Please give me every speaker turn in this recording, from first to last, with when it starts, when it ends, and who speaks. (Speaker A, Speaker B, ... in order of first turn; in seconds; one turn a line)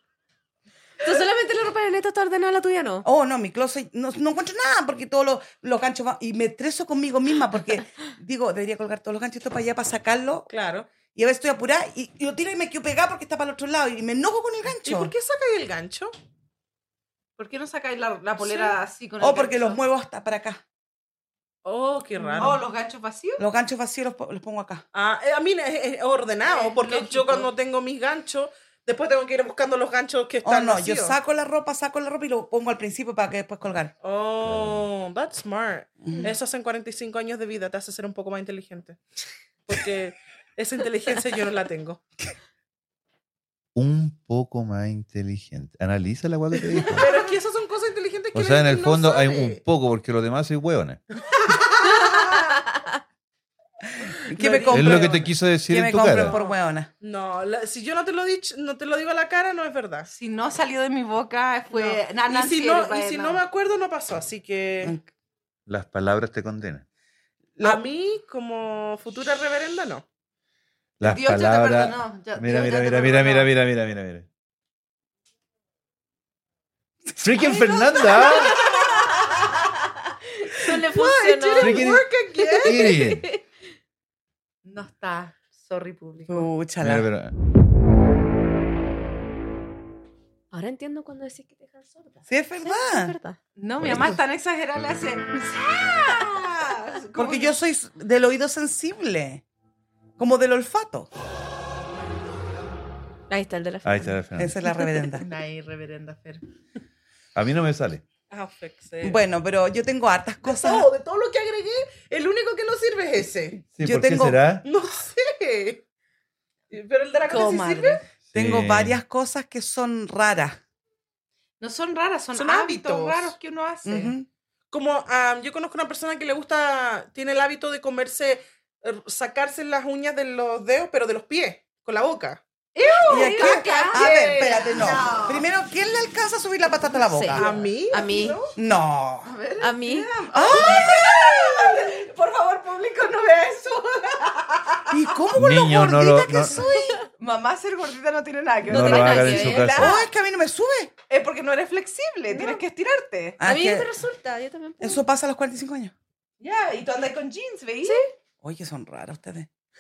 Speaker A: 1.0-3.1
Speaker B: 3.0-10.5
Speaker C: 10.5-10.9
Speaker B: 11.2-15.1
Speaker C: 14.8-16.1
Speaker D: 17.4-19.8
Speaker C: 18.4-18.8
Speaker B: 19.2-20.6
Speaker C: 21.6-22.6
Speaker D: 22.4-23.4
Speaker B: 23.4-24.8
Speaker C: 24.9-31.2
Speaker D: 26.5-27.5
Speaker B: 30.4-33.9
Speaker C: 34.0-39.0
Speaker E: 34.4-34.9
Speaker C: 39.6-42.0
Speaker E: 43.8-47.1
Speaker C: 46.9-49.6
Speaker D: 47.0-47.2
Speaker E: 48.3-51.0
Speaker C: 51.3-52.6
Speaker B: 54.0-56.9
Speaker C: 54.4-55.3
Speaker E: 54.7-56.4
Speaker C: 56.2-60.1
Speaker D: 60.1-63.4
Speaker C: 61.7-65.0
Speaker E: 65.7-66.8
Speaker B: 67.6-67.8
Speaker C: 67.6-70.0
Speaker E: 71.0-74.3
Speaker D: 71.0-73.5
Speaker E: 77.2-78.6
Speaker A: 78.1-79.2
Speaker A: 80.5-81.9
Speaker C: 80.6-83.0
Speaker E: 81.6-82.1
Speaker A: 82.5-83.4
Speaker E: 82.6-83.3
Speaker D: 84.7-86.5
Speaker B: 86.3-87.1
Speaker E: 86.8-87.3
Speaker A: 90.5-93.4
Speaker B: 92.3-93.2
Speaker D: 93.6-97.5
Speaker E: 93.8-94.1
Speaker B: 97.2-99.4
Speaker B: 100.2-101.1
Speaker A: 103.3-104.2
Speaker E: 103.8-104.5
Speaker B: 104.4-105.2
Speaker D: 105.1-106.4
Speaker E: 107.3-108.0
Speaker C: 108.3-109.2
Speaker B: 109.0-110.9
Speaker C: 110.4-113.7
Speaker E: 113.7-114.7
Speaker B: 113.7-114.4
Speaker C: 114.6-115.8
Speaker C: 116.7-118.0
Speaker D: 117.3-118.0
Speaker E: 118.3-119.0
Speaker B: 118.3-120.6
Speaker D: 121.6-124.1
Speaker C: 122.3-123.3
Speaker B: 123.8-124.3
Speaker C: 124.7-132.4
Speaker D: 132.8-135.4
Speaker A: 133.1-134.1
Speaker B: 133.1-137.5
Speaker C: 133.9-135.1
Speaker A: 137.1-138.4
Speaker C: 137.3-138.5
Speaker D: 137.5-138.5
Speaker B: 138.6-139.3
Speaker D: 139.2-145.0
Speaker A: 139.6-140.1
Speaker B: 140.3-141.1
Speaker B: 144.9-147.0
Speaker E: 145.3-146.6
Speaker A: 146.6-147.0
Speaker D: 147.2-150.0
Speaker E: 148.7-150.0
Speaker A: 148.7-150.0
Speaker B: 149.7-150.9
Speaker D: 151.1-153.4
Speaker A: 152.3-152.6
Speaker B: 153.4-154.0
Speaker A: 153.4-155.0
Speaker B: 154.8-155.9
Speaker D: 156.4-158.1
Speaker B: 158.4-159.5